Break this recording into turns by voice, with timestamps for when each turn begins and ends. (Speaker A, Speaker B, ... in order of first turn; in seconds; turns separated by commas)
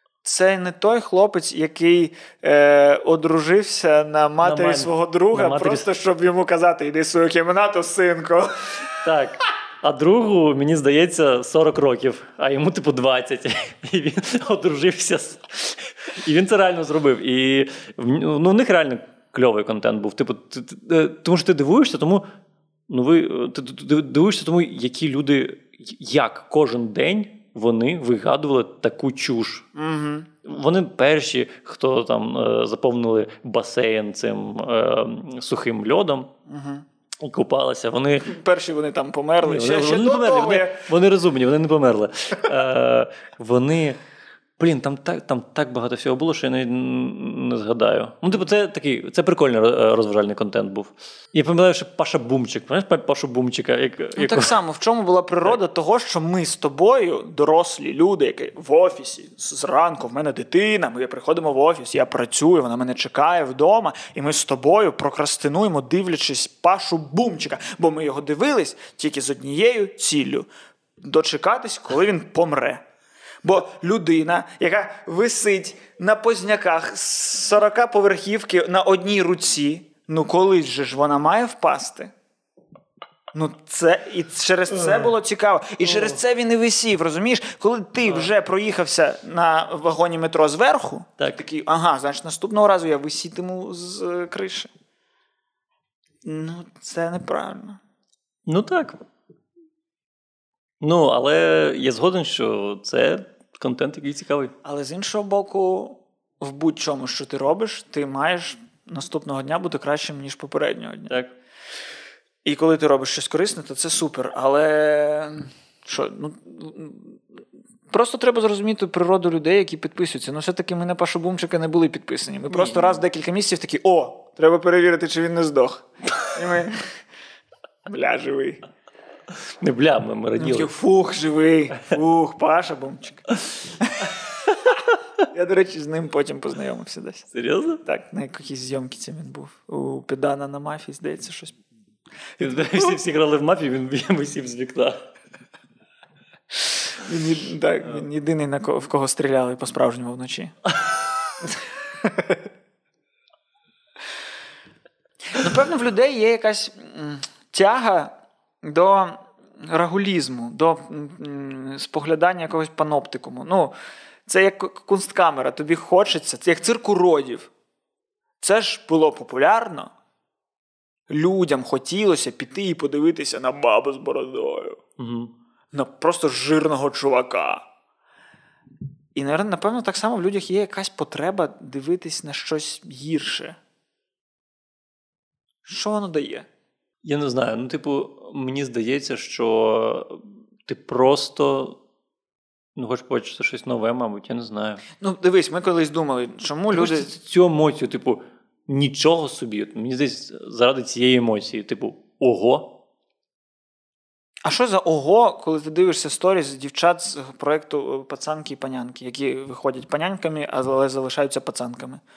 Speaker A: 0.2-9.0, Speaker B: 4.4-5.9, Speaker B: 9.0-22.3, Speaker B: 22.9-29.7, Speaker A: 29.8-30.3, Speaker B: 30.4-36.3, Speaker A: 36.5-36.9, Speaker B: 37.2-38.4, Speaker A: 38.2-40.9, Speaker B: 39.5-44.0, Speaker B: 44.6-54.6, Speaker A: 54.2-70.5, Speaker A: 71.0-72.8, Speaker A: 73.4-82.1, Speaker A: 83.3-94.7, Speaker A: 96.2-97.8, Speaker B: 98.5-99.0, Speaker B: 100.8-104.5, Speaker A: 104.6-111.1, Speaker B: 111.1-111.3, Speaker A: 112.5-117.4, Speaker A: 117.9-126.9, Speaker B: 122.5-123.0, Speaker A: 127.9-128.6, Speaker B: 129.6-130.7, Speaker A: 130.4-134.2, Speaker A: 135.3-137.3, Speaker B: 137.3-137.8, Speaker A: 137.8-141.6, Speaker B: 142.4-145.0, Speaker A: 142.5-143.0, Speaker A: 146.6-150.6, Speaker A: 152.0-152.4, Speaker A: 155.3-163.7, Speaker A: 164.3-167.5, Speaker A: 168.4-169.9, Speaker A: 171.1-174.8, Speaker B: 175.0-175.3, Speaker A: 175.7-177.7, Speaker A: 179.2-183.6, Speaker A: 185.7-186.5, Speaker B: 187.0-191.8, Speaker B: 192.8-194.8, Speaker A: 195.0-197.1, Speaker B: 196.7-202.8, Speaker A: 204.4-212.0